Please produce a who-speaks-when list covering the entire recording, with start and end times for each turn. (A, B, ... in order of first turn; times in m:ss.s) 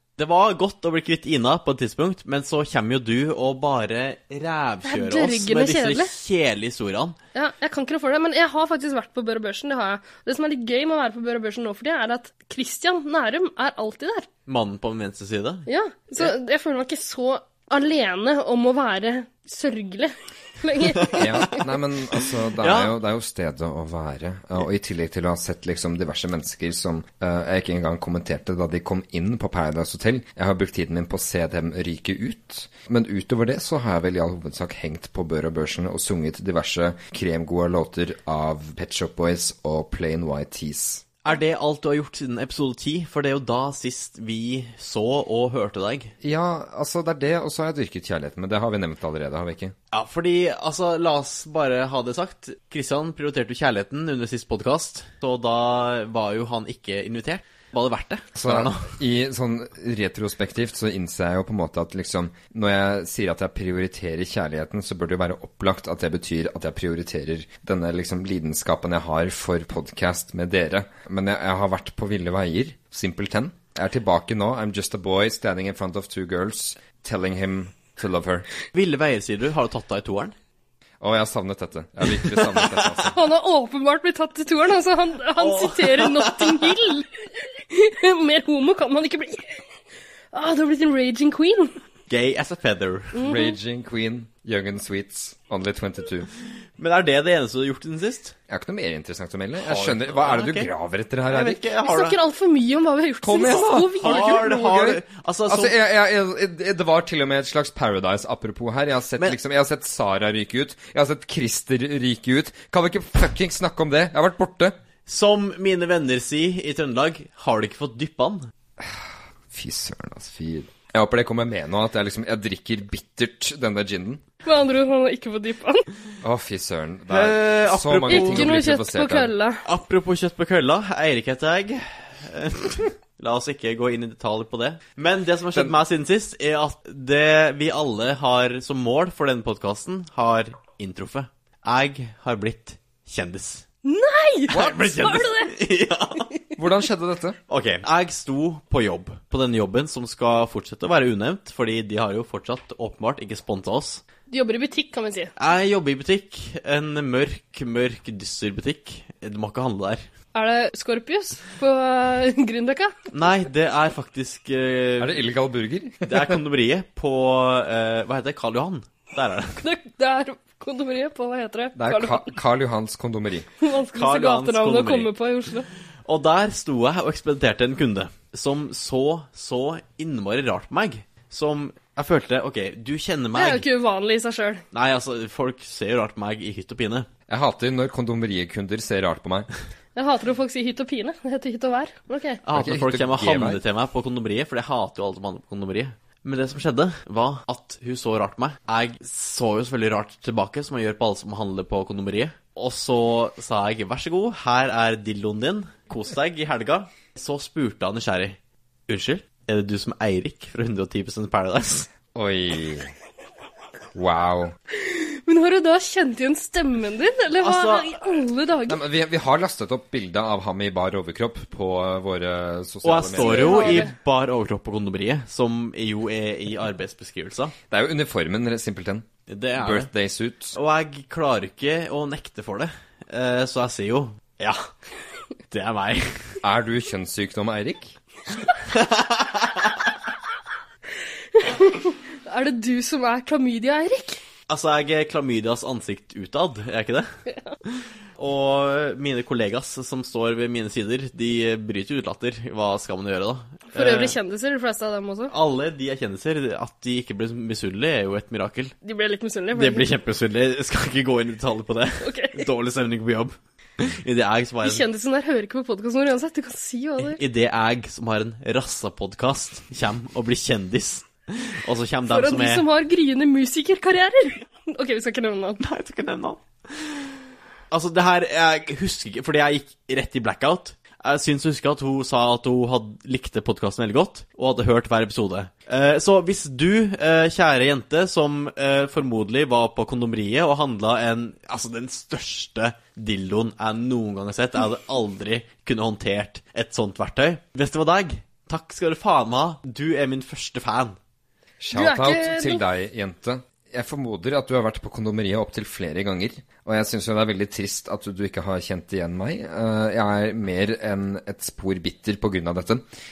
0:00.2-0:07.2 A
0:04.8-0:06.1 B
0:07.3-0:14.3 B
0:14.4-0:15.6 A
0:15.7-0:21.6 B
0:21.1-0:21.5 A
0:21.2-0:41.1 C
0:22.2-0:22.9 A
0:41.2-0:46.1 A
0:46.2-0:49.7 C
0:49.9-0:58.9 A
0:58.4-1:18.5 C
1:18.7-1:20.3 A
1:21.0-1:23.2 C
1:22.2-1:23.0 A
1:23.1-1:29.6 B
1:25.4-1:26.7 A
1:30.3-1:31.7 B
1:32.1-1:33.2 A
1:33.1-1:33.5 B
1:33.2-1:36.3 C
1:36.8-1:38.3 A
1:38.5-1:41.6 C
1:39.6-1:40.7 A
1:41.3-1:42.2 A
1:41.8-1:44.4 B
1:43.2-1:54.7 C
1:44.0-1:45.7 A
1:55.1-1:58.5 A
1:58.8-2:04.2 C
2:04.4-2:05.8 B
2:06.2-2:09.3 C
2:07.1-2:08.5 A
2:08.1-2:09.6 B
2:09.6-2:23.6 A
2:23.8-2:25.5 B
2:24.5-2:26.3 A
2:24.5-2:24.8 C
2:26.6-2:27.4 C
2:27.5-2:34.0 A
2:34.3-2:35.3 B
2:35.4-2:40.0 A
2:40.3-2:42.9 B
2:43.1-2:45.2 A
2:45.0-2:46.4 C
2:46.0-2:49.6 A
2:49.6-2:52.3 B
2:51.8-2:53.5 C
2:53.6-2:55.7 B
2:53.9-2:55.1 A
2:56.0-3:03.6 A
3:03.3-3:04.6 B
3:04.7-3:07.1 A
3:07.3-3:09.5 C
3:10.0-3:12.4 B
3:12.4-3:28.4 A
3:12.5-3:13.6 C
3:28.9-3:31.9 A
3:32.1-3:32.9 C
3:33.9-3:34.5 C
3:34.7-3:38.8 B
3:37.4-3:37.9 A
3:38.7-3:43.9 C
3:42.8-3:47.5 A
3:43.2-3:43.9 B
3:47.7-3:50.6 C
3:49.3-3:49.9 A
3:50.5-3:54.7 A
3:55.5-3:56.4 A
3:56.4-3:58.0 C
3:58.7-3:59.8 A
4:01.3-4:04.2 B
4:04.5-4:07.1 A
4:07.7-4:14.2 A
4:13.7-4:15.3 B
4:15.3-4:18.7 A
4:18.8-4:19.9 B
4:19.5-4:24.8 A
4:22.0-4:22.4 B
4:24.6-4:27.2 B
4:27.0-4:32.6 A
4:32.1-4:35.6 B
4:35.6-4:37.0 A
4:37.7-5:01.0 A
5:01.6-5:12.8 C
5:01.7-5:02.6 B